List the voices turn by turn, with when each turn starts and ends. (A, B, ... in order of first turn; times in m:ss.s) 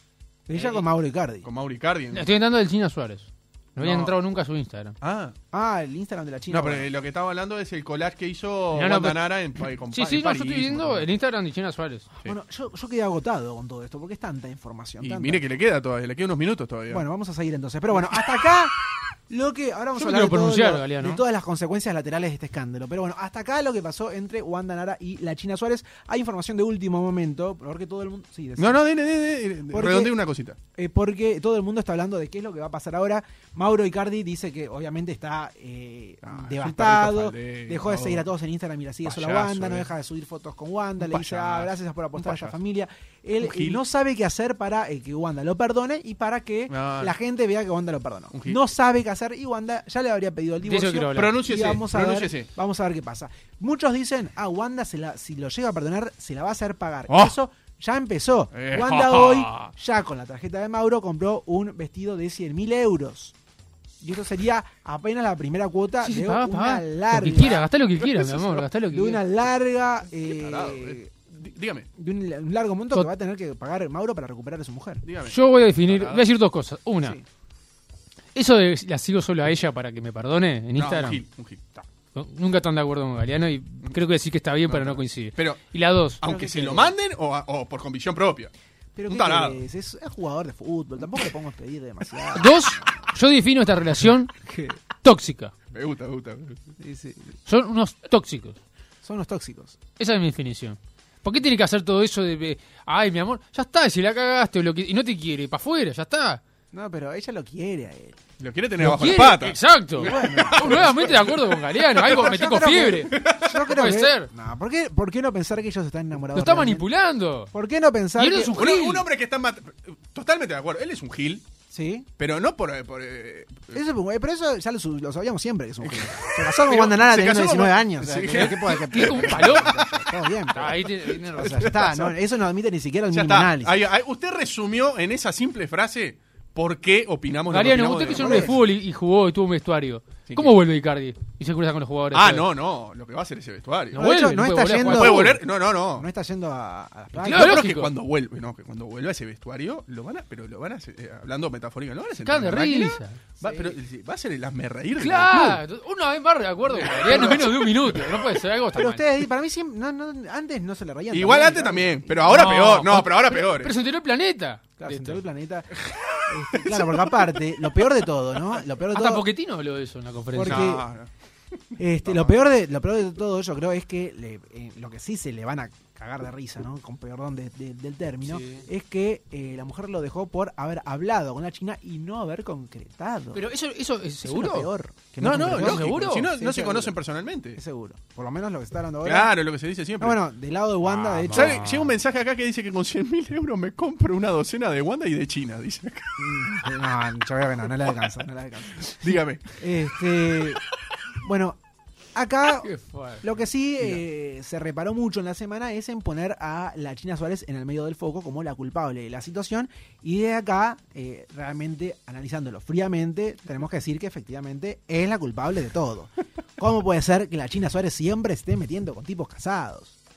0:00.5-0:01.5 A
0:01.4-0:02.3 B
0:02.1-0:04.9 C
0:03.8-0:04.1 B
0:05.0-0:05.3 B
0:05.5-0:06.9 A
0:06.5-0:11.1 B
0:08.7-0:09.2 C
0:09.9-0:12.1 C
0:12.2-0:15.4 A
0:15.0-0:17.0 B
0:16.9-0:18.8 A
0:19.3-0:28.8 A
0:19.9-0:21.2 C
0:28.6-0:30.6 B
0:29.7-0:30.1 A
0:30.7-1:03.3 A
0:36.2-0:38.2 B
0:39.0-0:39.9 B
0:41.0-0:42.6 B
0:43.4-0:43.8 B
0:46.7-0:47.1 B
0:48.3-0:48.6 B
0:50.6-0:51.4 C
0:51.1-0:52.5 B
0:57.1-0:57.4 B
0:58.5-0:59.7 B
1:04.0-1:07.6 A
1:06.0-1:09.2 C
1:07.4-1:08.7 B
1:08.9-1:11.1 A
1:10.2-1:11.9 B
1:12.0-1:15.0 A
1:15.0-1:16.3 B
1:15.2-1:17.2 C
1:18.3-1:21.2 C
1:20.7-1:21.7 B
1:22.1-1:26.2 C
1:24.7-1:25.6 B
1:26.2-1:28.5 B
1:26.2-1:26.9 A
1:29.0-1:33.0 A
1:29.1-1:29.6 B
1:32.3-1:34.3 C
1:34.5-1:34.8 A
1:35.0-1:35.5 C
1:35.7-1:36.6 B
1:36.8-1:37.3 A
1:37.4-1:38.6 C
1:39.0-1:39.8 A
1:40.0-1:46.4 C
1:46.7-1:48.2 A
1:48.4-1:52.3 B
1:48.8-1:54.3 C
1:50.0-1:51.0 A
1:52.0-1:56.9 A
1:53.1-1:53.6 B
1:56.3-1:57.5 C
1:57.5-1:58.5 A
1:58.2-1:59.0 C
1:58.5-2:01.4 B
2:01.7-2:02.1 A
2:02.2-2:03.8 B
2:03.7-2:13.8 A
2:05.8-2:10.0 B
2:08.3-2:09.8 C
2:10.5-2:11.8 C
2:11.4-2:12.1 B
2:13.1-2:18.6 B
2:17.5-2:22.5 C
2:18.1-2:18.5 A
2:20.3-2:20.5 B
2:22.1-2:24.1 B
2:23.9-2:25.4 C
2:23.9-2:27.6 A
2:24.8-2:26.1 B
2:27.2-2:27.9 C
2:27.3-2:35.6 B
2:32.2-2:33.2 C
2:33.4-2:33.7 A
2:35.0-2:39.0 C
2:36.8-2:38.0 B
2:37.0-2:37.5 A
2:38.7-2:42.5 A
2:41.1-2:43.7 B
2:42.2-2:45.2 C
2:44.8-2:45.7 A
2:46.2-2:49.2 A
2:46.5-2:47.4 B
2:48.9-2:50.7 C
2:50.3-2:50.8 A
2:50.4-2:51.1 B
2:51.8-3:03.4 A
2:52.0-2:52.3 B
2:58.3-2:58.6 C
3:03.3-3:04.7 C
3:04.2-3:07.0 A
3:05.2-3:07.6 B
3:05.2-3:06.3 C
3:07.5-3:09.3 A
3:09.0-3:10.2 B
3:10.0-3:11.6 A
3:10.8-3:11.9 C
3:11.3-3:16.6 B
3:16.2-3:20.6 A
3:18.8-3:19.6 B
3:21.2-3:21.6 A
3:22.1-3:22.7 A
3:22.6-3:23.2 C
3:23.2-3:40.0 A